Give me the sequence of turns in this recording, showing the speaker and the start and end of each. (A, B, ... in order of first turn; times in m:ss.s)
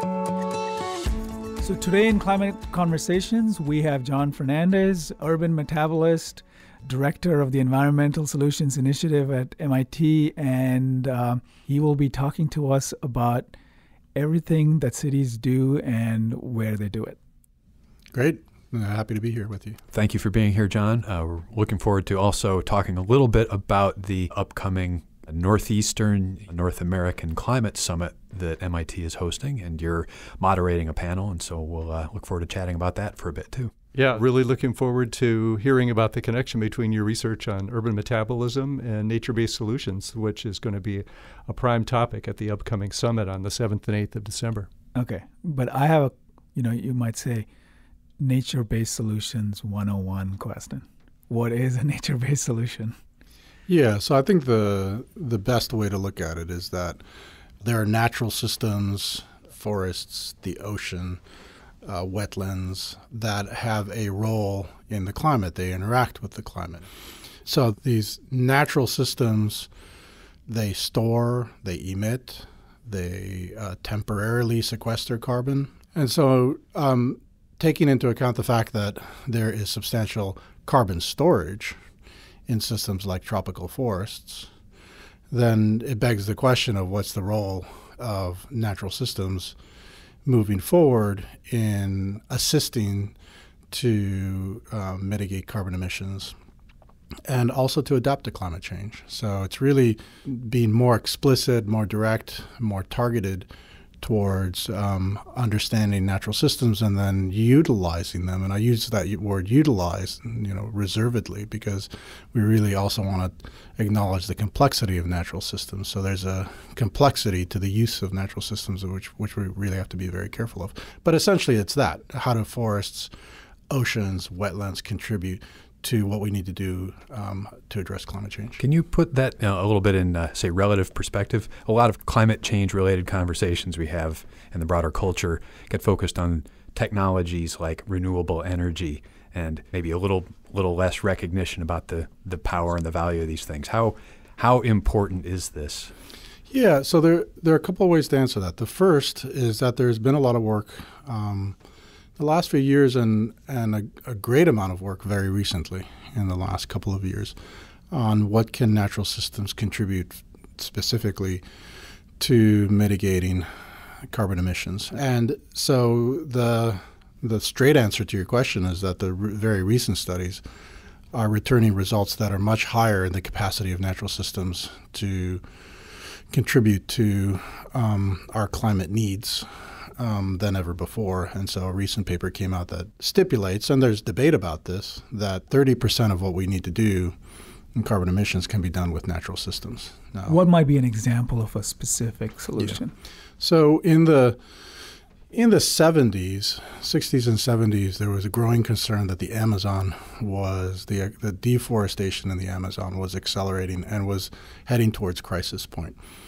0:01.6-0:13.5 A
0:14.1-0:17.2 A
0:18.1-0:19.8 B
0:19.9-0:33.7 C
0:33.9-0:44.7 D
0:44.9-0:47.4 A
0:48.2-0:53.0 A
0:53.7-0:57.0 B
0:57.6-1:01.2 B
1:01.8-1:06.9 B
1:07.4-1:09.7 B
1:10.5-1:21.8 B
1:22.5-1:24.5 B
1:25.3-1:29.6 B
1:30.2-1:33.1 B
1:33.7-1:36.4 B
1:37.2-1:43.5 B
1:44.0-2:03.1 B
2:03.7-2:08.6 B
2:08.6-2:25.9 C
2:26.5-2:31.6 B
2:32.2-2:37.4 B
2:37.9-2:41.4 B
2:42.2-2:43.5 B
2:44.1-2:50.4 B
2:51.1-2:55.4 B
2:56.3-3:07.2 B
3:07.7-3:10.4 B
3:10.2-3:12.9 A
3:13.4-3:14.4 B
3:15.3-3:26.0 B